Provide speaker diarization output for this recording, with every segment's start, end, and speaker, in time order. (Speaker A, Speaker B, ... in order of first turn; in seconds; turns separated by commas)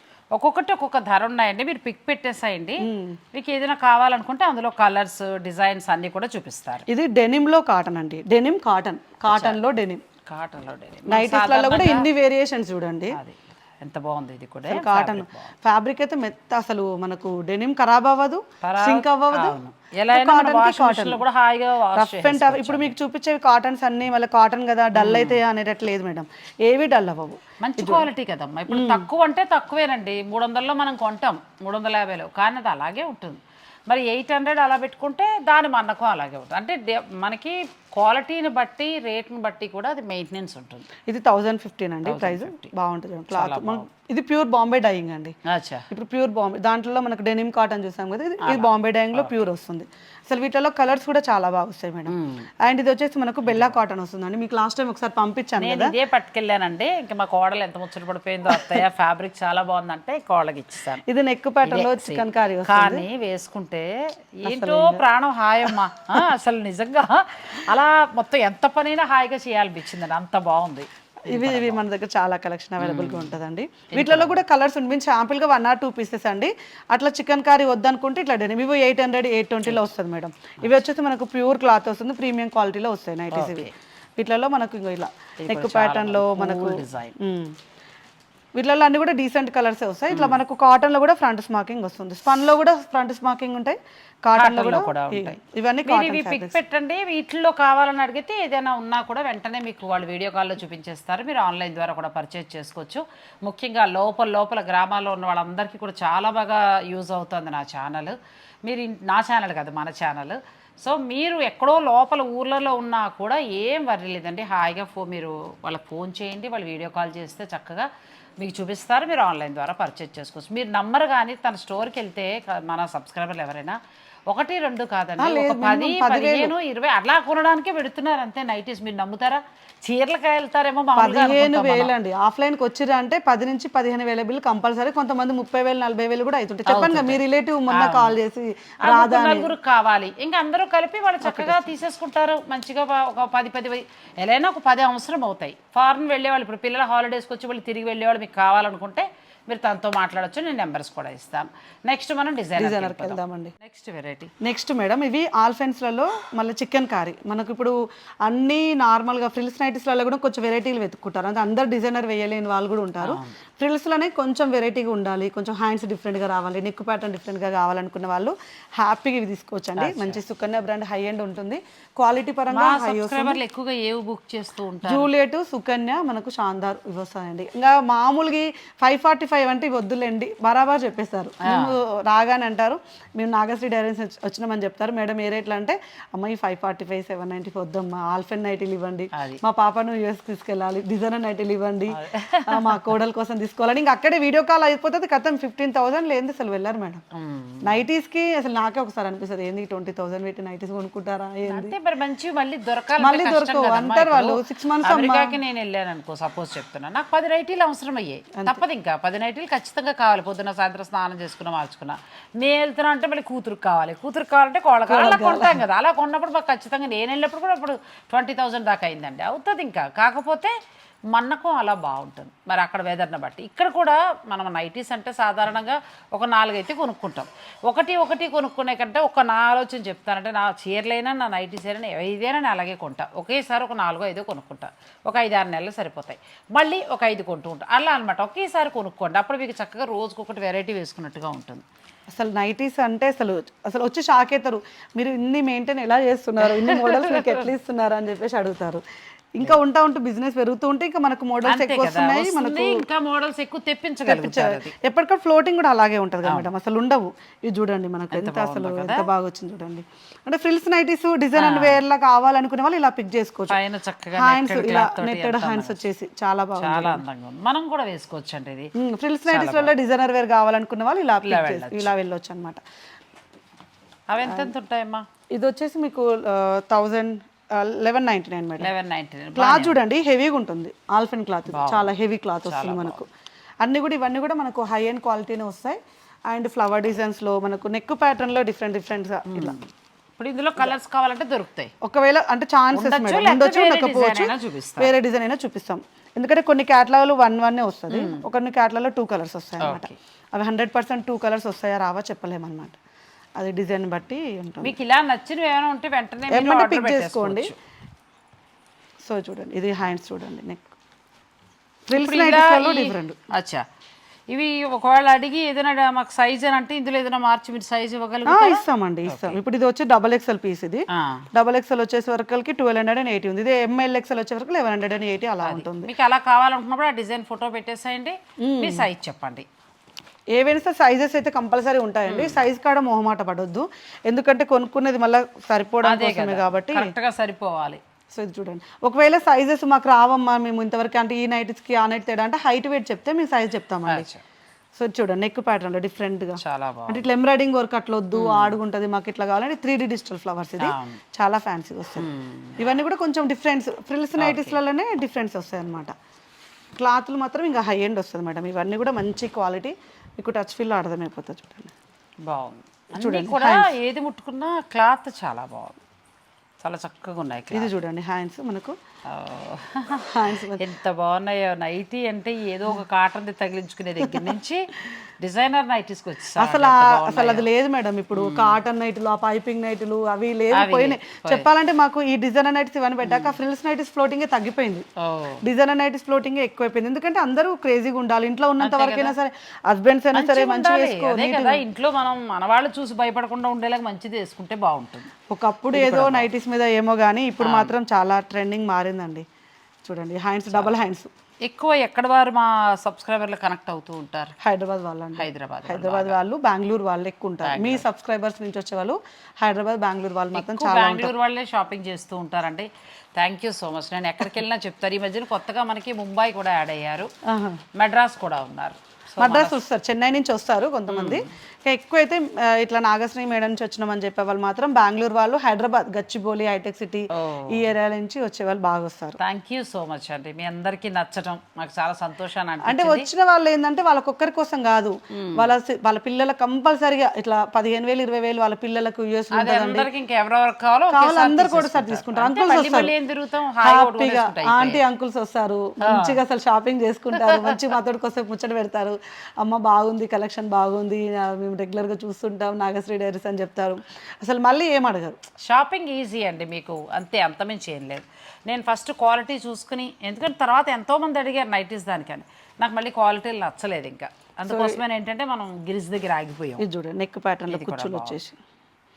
Speaker A: 0.3-6.9, Speaker B: 2.8-3.2, Speaker B: 6.9-10.0, Speaker A: 9.3-9.6, Speaker A: 10.3-12.1, Speaker B: 11.1-13.2, Speaker A: 13.1-15.5, Speaker B: 14.7-19.6, Speaker A: 18.6-22.9, Speaker B: 20.1-21.2, Speaker B: 21.9-28.1, Speaker A: 24.9-25.4, Speaker A: 27.6-40.9, Speaker B: 28.7-29.1, Speaker B: 41.1-45.4, Speaker A: 42.0-42.7, Speaker A: 43.3-43.9, Speaker A: 45.5-45.9, Speaker B: 45.9-56.0, Speaker A: 48.4-49.3, Speaker A: 52.1-52.5, Speaker A: 53.5-53.8, Speaker A: 55.6-61.0, Speaker B: 61.1-63.1, Speaker A: 61.6-71.8, Speaker B: 64.5-65.0, Speaker B: 71.2-87.6, Speaker A: 72.8-73.3, Speaker A: 73.9-74.4, Speaker A: 83.3-83.7, Speaker A: 85.4-87.2, Speaker B: 88.5-96.6, Speaker A: 90.1-90.4, Speaker A: 94.4-117.9, Speaker A: 118.4-131.9, Speaker B: 125.2-126.5, Speaker B: 131.0-139.5, Speaker A: 136.7-138.2, Speaker A: 138.8-154.3, Speaker B: 141.2-141.8, Speaker B: 152.6-153.6, Speaker B: 154.4-173.4, Speaker A: 163.0-163.3, Speaker A: 169.8-170.2, Speaker A: 172.5-175.1, Speaker B: 174.8-197.0, Speaker A: 181.4-181.8, Speaker A: 189.1-189.4, Speaker A: 191.9-192.9, Speaker A: 197.1-197.8, Speaker B: 197.6-201.7, Speaker A: 201.5-220.5, Speaker B: 203.0-205.4, Speaker B: 208.4-208.6, Speaker B: 214.9-215.6, Speaker A: 221.1-241.7, Speaker B: 242.1-248.8, Speaker A: 246.4-247.4, Speaker B: 249.3-252.9, Speaker A: 251.4-254.8, Speaker B: 254.1-263.6, Speaker A: 258.1-259.1, Speaker A: 261.3-261.8, Speaker A: 263.5-265.8, Speaker B: 264.2-267.0, Speaker A: 266.6-268.7, Speaker B: 268.8-272.6, Speaker A: 269.3-269.7, Speaker A: 271.2-271.9, Speaker A: 274.1-275.1, Speaker B: 274.2-274.5, Speaker B: 275.3-278.7, Speaker A: 278.6-279.8, Speaker B: 279.3-283.1, Speaker A: 281.5-281.9, Speaker A: 282.4-283.0, Speaker B: 283.6-289.6, Speaker A: 289.3-291.7, Speaker B: 291.8-302.8, Speaker A: 292.7-294.9, Speaker A: 297.9-298.2, Speaker A: 299.6-300.0, Speaker B: 303.4-304.8, Speaker A: 304.6-307.6, Speaker B: 306.3-307.5, Speaker B: 309.0-310.7, Speaker B: 311.9-313.2, Speaker A: 311.9-313.6, Speaker A: 314.3-319.4, Speaker B: 318.3-325.9, Speaker A: 320.9-321.2, Speaker A: 325.4-329.5, Speaker B: 328.4-328.9, Speaker B: 330.3-336.9, Speaker A: 332.1-332.4, Speaker A: 335.8-337.8, Speaker B: 338.1-344.1, Speaker A: 343.9-344.2, Speaker B: 344.8-355.9, Speaker A: 346.4-347.1, Speaker A: 348.1-348.6, Speaker A: 350.6-351.0, Speaker A: 352.0-352.6, Speaker A: 354.2-354.6, Speaker B: 356.8-361.7, Speaker A: 362.2-365.8, Speaker B: 363.0-363.8, Speaker A: 366.6-367.7, Speaker B: 367.5-368.8, Speaker A: 369.1-377.5, Speaker B: 370.1-370.6, Speaker B: 374.0-374.4, Speaker B: 376.4-384.9, Speaker A: 378.1-378.6, Speaker A: 380.5-381.5, Speaker A: 383.0-383.4, Speaker A: 385.0-385.4, Speaker B: 385.4-391.6, Speaker A: 388.6-389.1, Speaker A: 390.1-395.1, Speaker B: 395.3-399.3, Speaker A: 395.7-396.3, Speaker A: 397.4-397.7, Speaker B: 399.8-401.1, Speaker A: 401.4-404.4, Speaker B: 404.4-411.1, Speaker A: 405.2-406.1, Speaker A: 407.4-407.9, Speaker A: 410.3-417.1, Speaker B: 417.2-417.6, Speaker A: 417.8-419.6, Speaker B: 419.2-429.2, Speaker A: 420.9-421.3, Speaker A: 427.1-427.7, Speaker A: 429.2-433.1, Speaker B: 432.6-439.9, Speaker A: 435.1-435.5, Speaker A: 439.3-444.8, Speaker B: 440.9-442.9, Speaker B: 443.6-455.2, Speaker A: 445.8-446.2, Speaker A: 447.2-447.5, Speaker A: 455.4-466.6, Speaker B: 464.5-464.8, Speaker B: 466.6-468.4, Speaker A: 467.5-468.2